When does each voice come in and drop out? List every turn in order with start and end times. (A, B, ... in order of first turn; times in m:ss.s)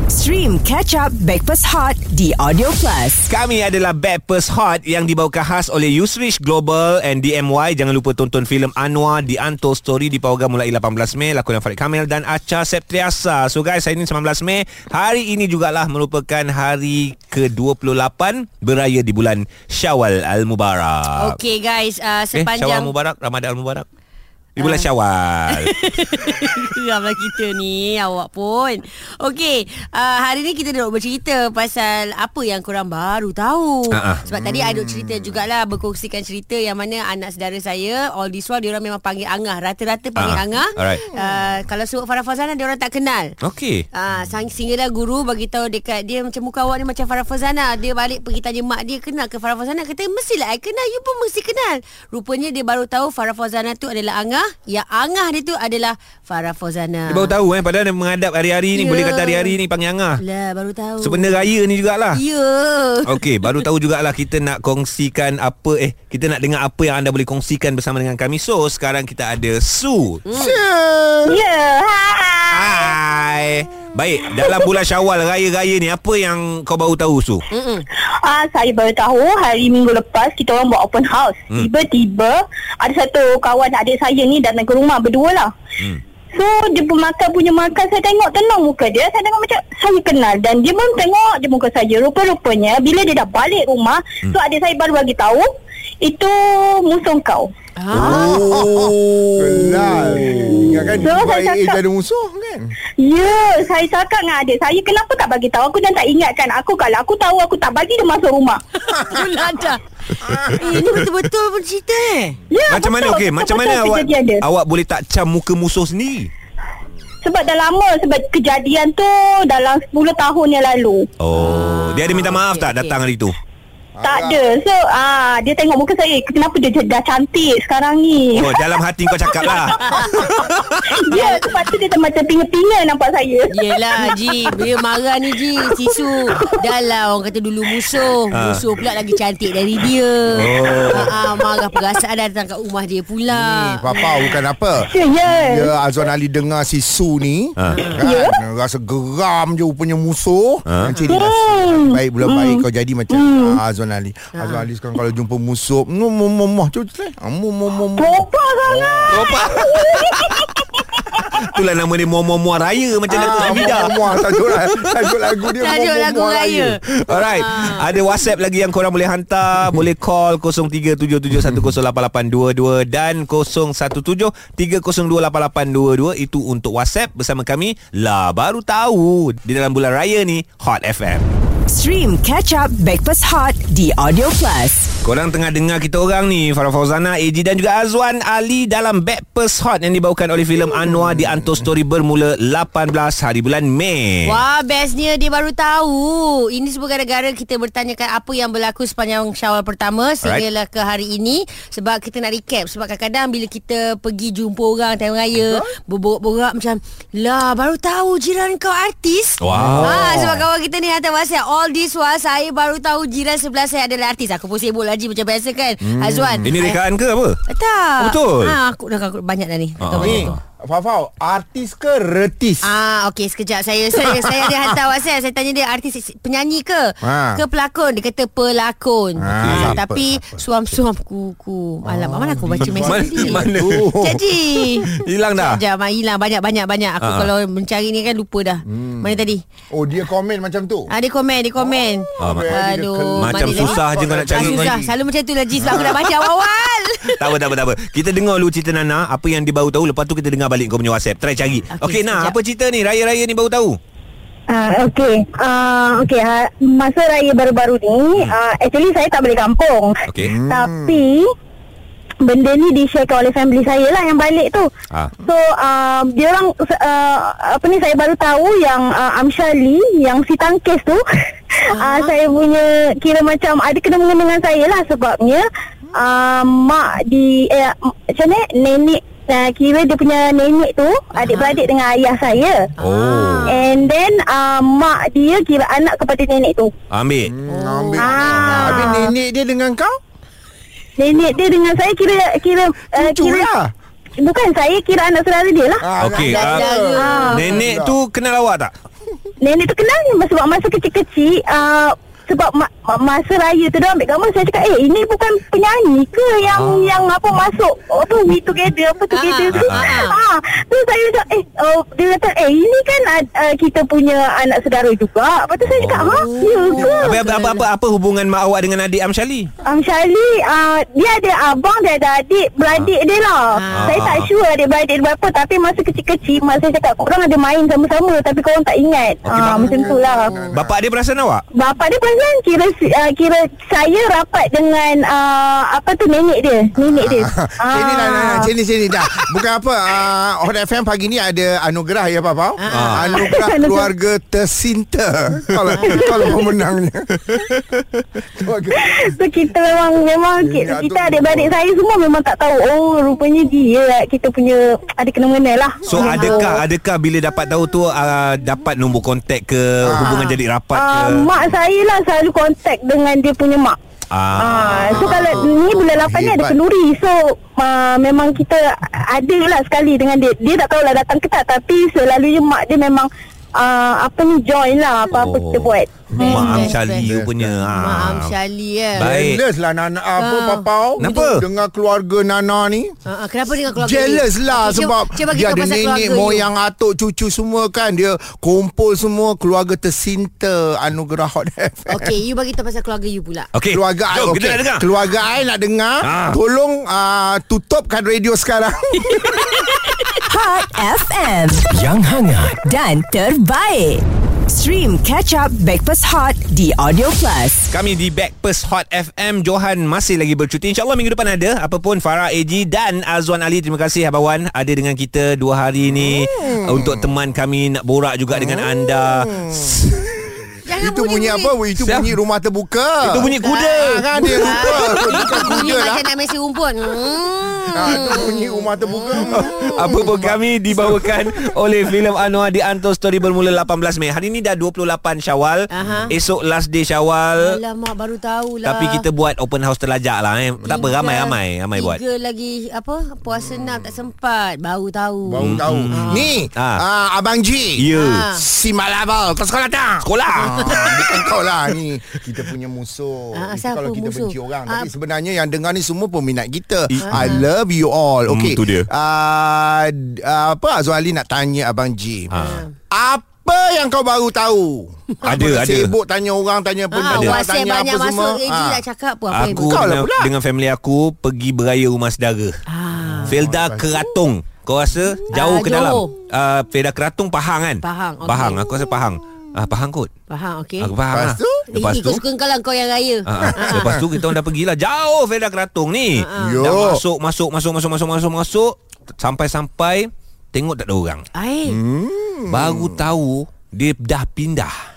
0:00.1-0:03.3 A
0:03.3-0:21.4 B
0:21.2-0:22.9 C
0:22.3-0:23.8 B
0:24.6-0:25.7 B
0:24.6-0:24.9 C
0:25.5-0:43.3 C
0:33.9-0:34.2 B
0:34.3-0:35.0 D
0:40.2-0:41.1 B
0:43.4-0:43.8 B
0:43.9-0:57.4 C
0:57.1-1:00.2 B
0:58.7-0:59.6 C
1:00.2-1:01.5 C
1:01.0-1:02.2 B
1:02.1-1:03.2 C
1:03.0-1:10.2 B
1:10.2-1:10.6 C
1:10.3-1:11.4 D
1:11.2-1:12.9 E
1:12.5-1:17.4 B
1:14.4-1:14.7 E
1:17.5-1:17.8 C
1:18.2-1:25.5 E
1:26.3-1:35.5 E
1:36.0-1:37.5 E
1:37.8-1:38.5 C
1:37.9-1:40.3 B
1:37.9-1:42.7 D
1:40.5-1:41.8 E
1:43.0-1:48.6 E
1:49.0-1:49.8 C
1:50.2-1:50.6 D
1:50.3-1:51.0 B
1:50.5-1:52.4 C
1:52.5-1:54.4 E
1:52.7-1:56.3 B
1:57.2-2:01.1 E
2:01.2-2:03.3 B
2:01.3-2:03.0 C
2:03.9-2:04.5 D
2:04.0-2:08.6 E
2:08.3-2:10.8 B
2:09.3-2:14.7 E
2:09.7-2:10.3 C
2:11.1-2:11.7 C
2:13.5-2:24.1 C
2:15.6-2:16.6 E
2:18.3-2:18.6 B
2:20.3-2:21.2 B
2:23.3-2:39.2 D
2:24.8-2:25.7 E
2:27.6-2:27.8 B
2:27.8-2:28.0 C
2:28.0-2:28.4 E
2:30.7-2:31.0 B
2:31.1-2:33.6 E
2:38.0-2:41.2 E
2:39.1-2:40.2 B
2:41.2-2:45.5 B
2:43.1-2:46.8 D
2:45.6-2:46.5 C
2:47.0-3:01.3 B
2:47.2-2:47.8 A
3:01.7-3:04.9 A
3:05.0-3:14.4 B
3:14.3-3:36.8 C
3:25.4-3:25.7 D
3:29.4-3:30.4 B
3:29.5-3:30.2 D
3:35.8-3:36.6 D
3:36.4-3:37.4 B
3:37.5-3:40.3 C
3:38.0-3:38.6 B
3:39.8-3:40.4 B
3:40.0-3:42.7 D
3:42.6-3:53.4 C
3:44.0-3:44.6 D
3:47.0-3:47.4 D
3:49.2-3:50.2 D
3:49.3-3:49.8 B
3:51.8-3:54.2 D
3:52.6-3:53.9 B
3:52.7-3:53.4 A
3:54.0-3:59.4 C
3:54.6-3:55.6 B
3:57.0-3:57.3 B
3:57.1-3:57.5 A
3:58.7-3:59.2 D
3:59.7-4:00.9 D
4:00.9-4:03.8 C
4:01.6-4:04.9 D
4:02.2-4:02.6 B
4:03.2-4:04.8 B
4:04.3-4:07.2 C
4:05.6-4:06.0 D
4:05.6-4:06.3 B
4:07.1-4:13.8 B
4:11.8-4:12.4 C
4:14.5-4:21.2 E
4:20.1-4:20.4 B
4:20.2-4:21.0 D
4:22.2-4:24.7 E
4:25.2-4:31.0 E
4:31.5-4:42.6 E
4:31.8-4:32.2 C
4:41.2-4:41.6 C
4:42.8-4:43.6 C
4:42.8-4:43.6 B
4:43.5-4:46.7 E
4:46.9-4:47.3 B
4:47.2-4:50.0 D
4:47.5-4:49.0 C
4:48.0-4:49.1 E
4:51.0-4:53.5 E
4:52.9-4:53.7 D
4:54.2-4:55.8 E
4:55.8-4:58.0 D
4:56.0-4:56.7 B
4:56.1-4:57.6 C
4:56.9-4:57.5 E
4:57.3-4:58.7 B
4:59.4-5:17.2 E
5:06.4-5:07.0 B
5:09.1-5:10.2 C
5:09.5-5:10.0 B
5:15.6-5:16.2 B
5:16.1-5:17.7 C
5:16.8-5:17.1 D
5:16.9-5:19.5 B
5:19.6-5:30.3 E
5:23.6-5:24.0 C
5:23.7-5:24.3 B
5:29.2-5:29.8 B
5:29.6-5:30.8 D
5:30.5-5:31.4 B
5:31.6-5:38.5 E
5:36.8-5:47.4 D
5:42.6-5:43.3 C
5:42.7-5:43.0 B
5:43.1-5:43.9 E
5:45.6-5:45.8 B
5:45.8-5:46.4 C
5:45.9-5:46.3 E
5:47.4-5:48.0 B
5:48.4-5:49.0 D
5:48.8-5:56.6 E
5:50.4-5:51.5 D
5:55.8-6:01.3 B
5:56.0-5:56.5 C
5:59.8-6:00.3 D
6:00.7-6:03.8 E
6:04.1-6:05.2 B
6:04.4-6:16.5 E
6:04.9-6:06.6 D
6:15.1-6:18.3 B
6:16.1-6:17.7 D
6:16.2-6:17.1 C
6:17.8-6:19.1 C
6:18.9-6:22.9 D
6:19.0-6:19.4 B
6:20.2-6:21.3 C
6:21.0-6:21.4 B
6:23.1-6:26.4 C
6:23.7-6:32.1 D
6:31.9-6:33.5 C
6:33.5-6:34.8 B
6:33.7-6:39.4 D
6:36.0-6:36.4 B
6:40.2-6:47.7 A
6:47.7-7:00.0 B
6:55.9-6:57.0 D
6:58.3-7:06.1 D
7:00.6-7:01.5 C
7:01.8-7:02.1 B
7:03.0-7:05.6 B
7:03.3-7:09.7 C
7:07.7-7:11.3 D
7:09.2-7:17.6 B
7:15.7-7:16.1 C
7:15.8-7:16.0 D
7:17.4-7:19.0 C
7:18.6-7:22.0 B
7:20.6-7:20.9 D
7:20.7-7:26.3 C
7:23.5-7:23.8 D
7:25.3-7:42.3 D
7:25.4-7:26.8 B
7:27.8-7:28.3 B
7:27.9-7:28.4 C
7:30.0-7:31.3 B
7:33.4-7:34.9 C
7:36.9-7:37.4 B
7:37.1-7:37.4 C
7:38.3-7:38.9 B
7:42.3-7:42.6 B
7:42.3-7:42.7 C
7:42.9-7:48.8 D
7:45.2-7:45.9 B
7:46.9-7:49.8 C
7:47.0-7:47.4 B
7:49.3-7:52.6 B
7:49.6-7:50.3 D
7:52.7-7:53.4 C
7:53.0-7:54.2 D
7:53.2-8:00.1 B
7:55.3-7:56.1 C
7:57.8-7:58.6 C
8:00.3-8:00.9 C
8:00.8-8:02.2 B
8:01.1-8:01.6 D
8:01.7-8:04.2 C
8:03.2-8:11.2 B
8:06.2-8:06.6 C
8:06.4-8:07.0 D
8:11.3-8:11.8 C
8:11.6-8:13.0 D
8:12.5-8:14.7 B